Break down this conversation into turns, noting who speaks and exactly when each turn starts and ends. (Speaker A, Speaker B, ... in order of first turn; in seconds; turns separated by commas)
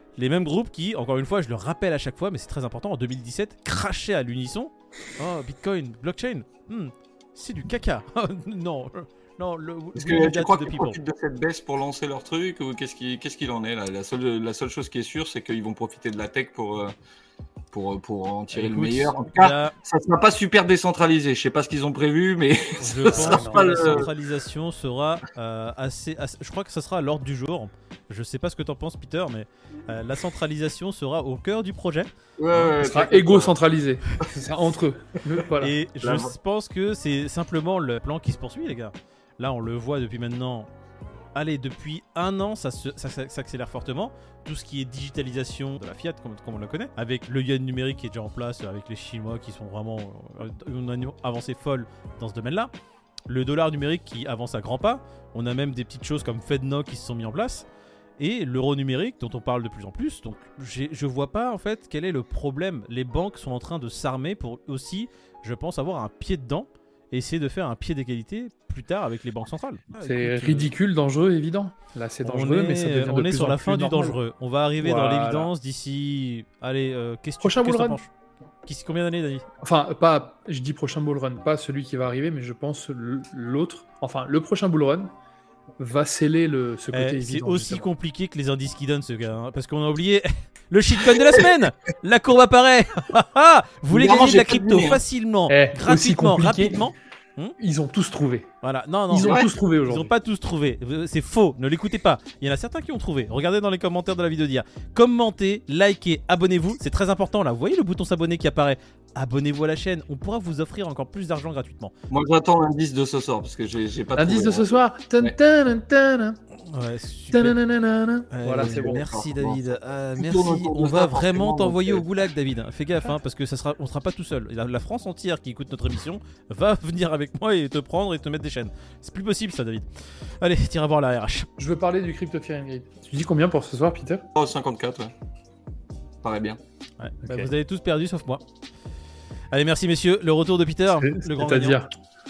Speaker A: 0.2-11.0, Speaker B: 9.9-16.9, Speaker B: 17.7-24.1, Speaker A: 18.5-19.7, Speaker A: 22.8-32.7, Speaker C: 23.1-24.1, Speaker B: 32.4-33.5, Speaker C: 32.8-35.8, Speaker A: 35.6-40.7, Speaker B: 36.0-36.3, Speaker A: 41.3-52.7, Speaker A: 53.3-57.6, Speaker A: 58.2-70.7, Speaker C: 70.0-74.2, Speaker A: 72.2-78.1, Speaker C: 74.8-75.5, Speaker C: 77.4-78.0, Speaker A: 78.7-79.4, Speaker C: 79.6-85.1, Speaker C: 85.8-87.9, Speaker A: 86.9-97.5, Speaker B: 93.9-95.0, Speaker C: 95.5-96.9, Speaker C: 97.6-98.5, Speaker A: 98.6-111.9, Speaker C: 99.1-100.1, Speaker B: 99.2-99.5, Speaker B: 112.1-115.3, Speaker C: 114.1-116.4, Speaker A: 116.7-117.6, Speaker C: 117.3-119.0, Speaker A: 118.3-129.8, Speaker B: 118.5-119.6, Speaker B: 120.2-122.0, Speaker A: 130.4-131.5, Speaker C: 131.6-134.2, Speaker B: 134.3-135.1, Speaker B: 136.2-136.6, Speaker A: 137.0-138.4, Speaker C: 137.2-137.5, Speaker A: 139.5-141.8, Speaker C: 140.9-141.9